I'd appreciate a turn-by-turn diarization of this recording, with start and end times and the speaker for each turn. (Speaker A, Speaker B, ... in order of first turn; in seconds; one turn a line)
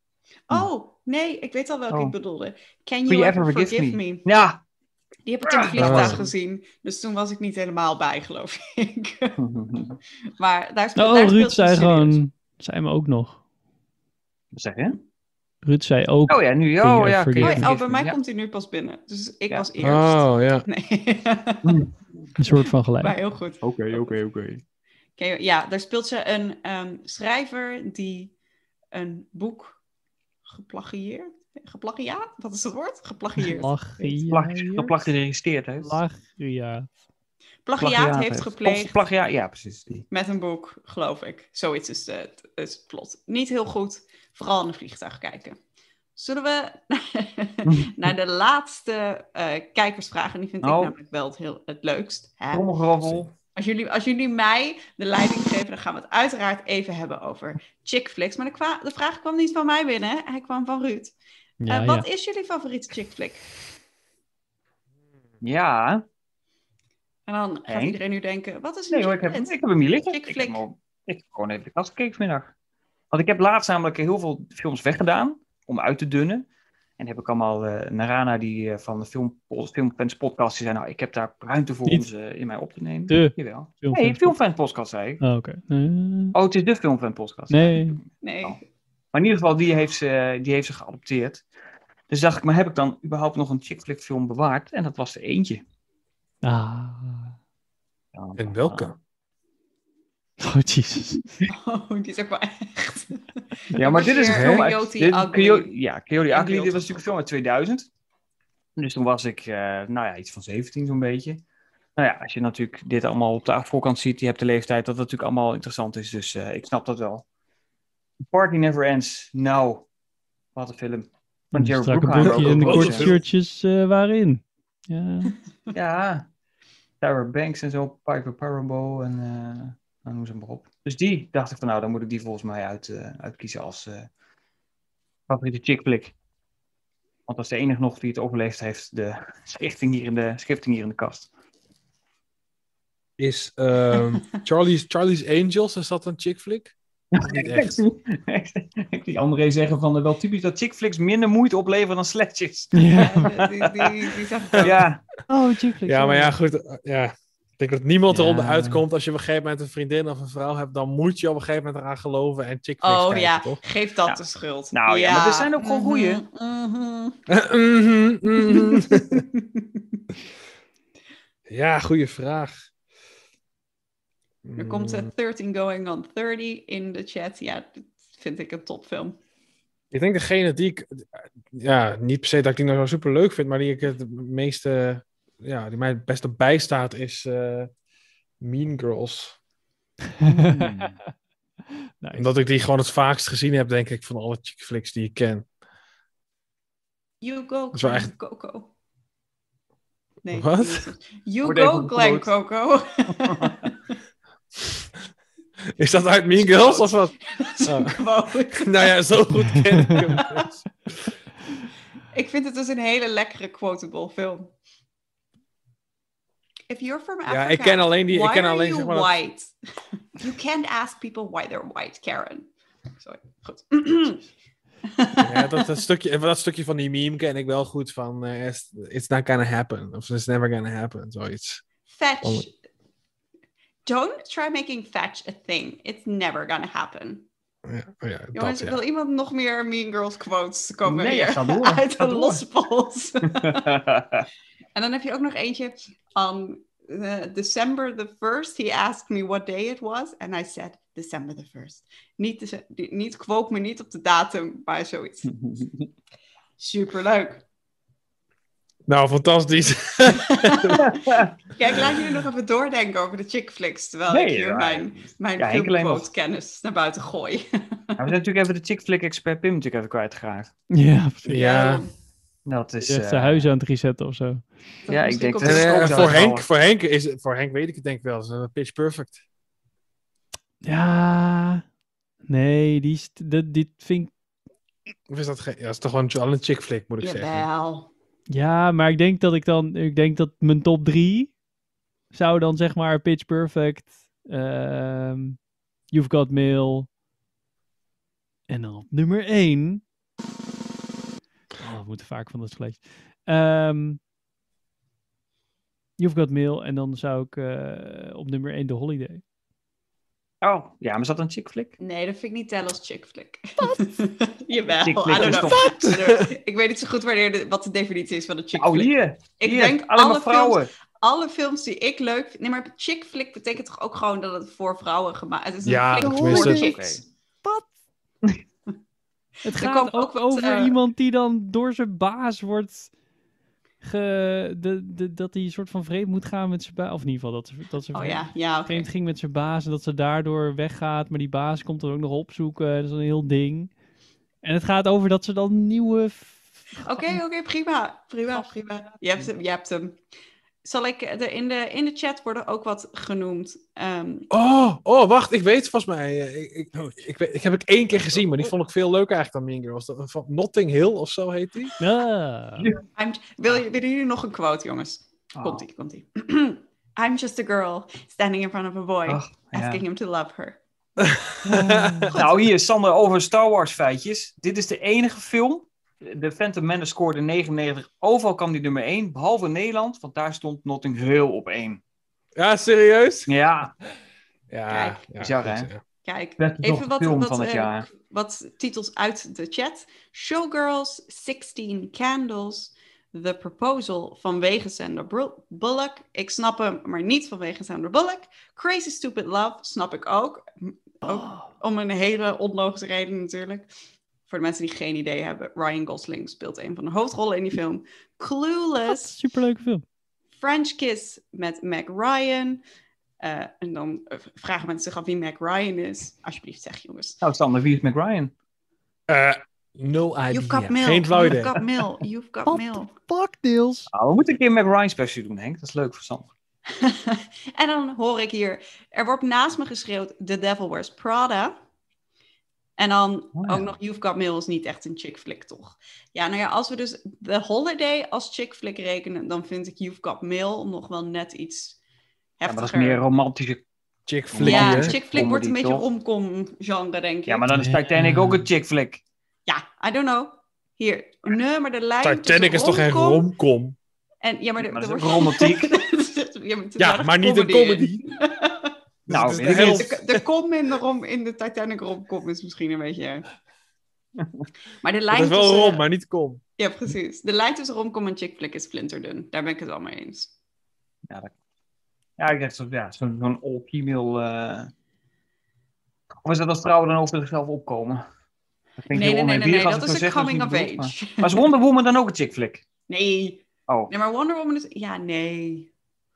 Speaker A: 0.5-4.2
Speaker B: 3.1-4.6
Speaker A: 5.2-9.4
Speaker B: 5.4-6.3
Speaker C: 5.8-6.2
Speaker B: 9.4-10.0
Speaker A: 10.4-12.2
Speaker D: 10.9-13.4
Speaker B: 14.5-15.0
Speaker D: 15.6-17.7
Speaker B: 16.3-18.2
Speaker A: 17.4-21.8
Speaker C: 19.8-20.6
Speaker B: 21.6-21.9
Speaker D: 22.4-23.2
Speaker A: 23.0-24.2
Speaker B: 23.6-24.6
Speaker A: 25.2-28.3
Speaker A: 28.9-29.8
Speaker A: 30.5-34.2
Speaker D: 33.4-34.9
Speaker B: 34.3-36.0
Speaker D: 35.8-36.9
Speaker A: 37.6-39.0
Speaker B: 37.8-40.0
Speaker A: 40.1-45.6
Speaker A: 46.1-52.6
Speaker B: 47.6-47.9
Speaker B: 50.6-50.9
Speaker B: 52.5-53.3
Speaker A: 53.5-61.1
Speaker D: 61.6-62.0
Speaker A: 61.7-63.4
Speaker B: 65.4-66.0
Speaker A: 67.3-70.6
Speaker B: 67.7-68.0
Speaker B: 68.9-72.5
Speaker B: 73.1-76.5
Speaker B: 77.0-85.2
Speaker D: 83.1-84.3
Speaker D: 85.2-86.3
Speaker B: 86.3-88.6
Speaker D: 87.5-88.0
Speaker A: 88.2-88.6
Speaker B: 89.1-91.4
Speaker B: 92.1-95.6
Speaker D: 96.4-97.3
Speaker B: 98.1-98.9
Speaker C: 98.4-99.0
Speaker D: 100.4-101.3
Speaker A: 101.5-105.7
Speaker B: 103.7-107.9
Speaker C: 104.3-104.6
Speaker A: 106.3-107.1
Speaker B: 108.8-111.4
Speaker B: 112.0-117.2
Speaker B: 118.3-119.8
Speaker B: 120.5-123.1
Speaker D: 121.5-125.4
Speaker C: 122.2-123.2
Speaker B: 125.7-126.2
Speaker B: 127.0-134.1
Speaker B: 135.3-136.1
Speaker B: 137.3-141.3
Speaker C: 143.2-147.8
Speaker B: 147.1-152.9
Speaker D: 152.7-153.4
Speaker A: 152.9-154.9
Speaker B: 153.6-155.0
Speaker D: 155.3-156.3
Speaker C: 155.8-163.6
Speaker B: 158.1-158.8
Speaker A: 162.8-167.2
Speaker B: 164.7-166.2
Speaker C: 167.3-169.2
Speaker A: 168.3-170.0
Speaker C: 171.5-172.6
Speaker C: 174.4-175.1
Speaker A: 174.6-179.2
Speaker C: 179.9-187.7
Speaker C: 188.4-189.3
Speaker D: 190.1-191.1
Speaker B: 190.5-190.9
Speaker D: 192.0-192.3
Speaker C: 192.1-195.5
Speaker A: 197.2-198.7
Speaker C: 197.7-198.1
Speaker A: 200.2-203.7
Speaker C: 200.3-200.8
Speaker B: 201.4-202.3
Speaker C: 205.8-208.0
Speaker A: 206.4-208.9
Speaker C: 208.5-210.6
Speaker D: 209.5-209.9
Speaker A: 210.0-210.4
Speaker A: 212.1-214.5
Speaker A: 216.7-219.5
Speaker C: 217.3-219.2
Speaker A: 220.2-222.5
Speaker A: 223.0-224.2
Speaker A: 224.9-225.7
Speaker C: 225.2-231.6
Speaker A: 231.8-232.5
Speaker A: 233.8-237.2
Speaker C: 237.7-238.8
Speaker A: 238.3-243.8
Speaker B: 240.8-242.4
Speaker B: 243.3-244.2
Speaker A: 244.7-255.3
Speaker B: 255.3-255.9
Speaker A: 256.6-257.4
Speaker C: 258.9-260.8
Speaker A: 260.1-268.0
Speaker B: 260.8-261.3
Speaker C: 261.8-262.0
Speaker B: 264.1-266.1
Speaker B: 268.0-270.5
Speaker D: 270.7-271.5
Speaker C: 271.3-271.9
Speaker A: 271.3-271.9
Speaker B: 272.4-273.5
Speaker D: 272.8-274.5
Speaker A: 274.8-276.2
Speaker B: 274.9-276.5
Speaker C: 275.4-279.2
Speaker D: 280.6-281.6
Speaker D: 282.2-284.1
Speaker C: 285.1-287.4
Speaker A: 287.0-287.9
Speaker D: 288.3-291.3
Speaker D: 292.1-295.4
Speaker D: 295.9-296.9
Speaker D: 298.5-299.8
Speaker D: 301.6-304.0
Speaker D: 306.0-309.2
Speaker B: 310.4-311.8
Speaker A: 311.8-327.0
Speaker B: 314.8-315.7
Speaker C: 315.1-316.3
Speaker B: 318.5-320.7
Speaker C: 325.6-326.7
Speaker D: 326.0-326.7
Speaker B: 326.4-327.0
Speaker D: 329.4-332.9
Speaker A: 329.5-330.8
Speaker D: 333.8-343.7
Speaker A: 337.9-338.9
Speaker D: 344.4-347.2
Speaker A: 346.8-350.0
Speaker A: 350.6-354.3
Speaker C: 354.3-361.7
Speaker D: 361.8-362.7
Speaker A: 362.9-370.6
Speaker B: 365.3-365.6
Speaker B: 369.1-369.8
Speaker C: 371.0-372.1
Speaker D: 371.5-372.2
Speaker B: 372.1-381.8
Speaker C: 382.4-383.3
Speaker B: 383.3-383.7
Speaker C: 384.5-385.8
Speaker A: 384.7-385.0
Speaker B: 385.2-385.7
Speaker A: 386.0-403.7
Speaker B: 386.4-387.9
Speaker D: 401.0-401.5
Speaker A: 404.3-409.1
Speaker D: 408.9-409.8
Speaker A: 410.4-412.6
Speaker A: 413.2-417.2
Speaker B: 417.2-418.3
Speaker C: 419.1-421.6
Speaker A: 420.3-422.9
Speaker D: 422.4-423.9
Speaker B: 423.9-426.3
Speaker A: 426.7-431.6
Speaker A: 432.8-441.8
Speaker B: 433.4-433.7
Speaker A: 442.4-443.0
Speaker B: 442.4-443.6
Speaker C: 444.1-444.9
Speaker B: 444.3-445.8
Speaker A: 444.4-447.4
Speaker B: 447.3-449.0
Speaker D: 447.5-448.5
Speaker A: 449.5-453.3
Speaker C: 452.0-453.8
Speaker A: 454.2-463.2
Speaker B: 454.6-455.8
Speaker C: 456.8-458.1
Speaker C: 459.1-460.2
Speaker B: 459.1-459.9
Speaker A: 464.8-465.8
Speaker C: 465.1-466.4
Speaker A: 466.6-470.3
Speaker B: 472.2-474.7
Speaker B: 476.2-478.0
Speaker B: 478.8-482.6
Speaker A: 478.9-481.5
Speaker A: 482.9-485.7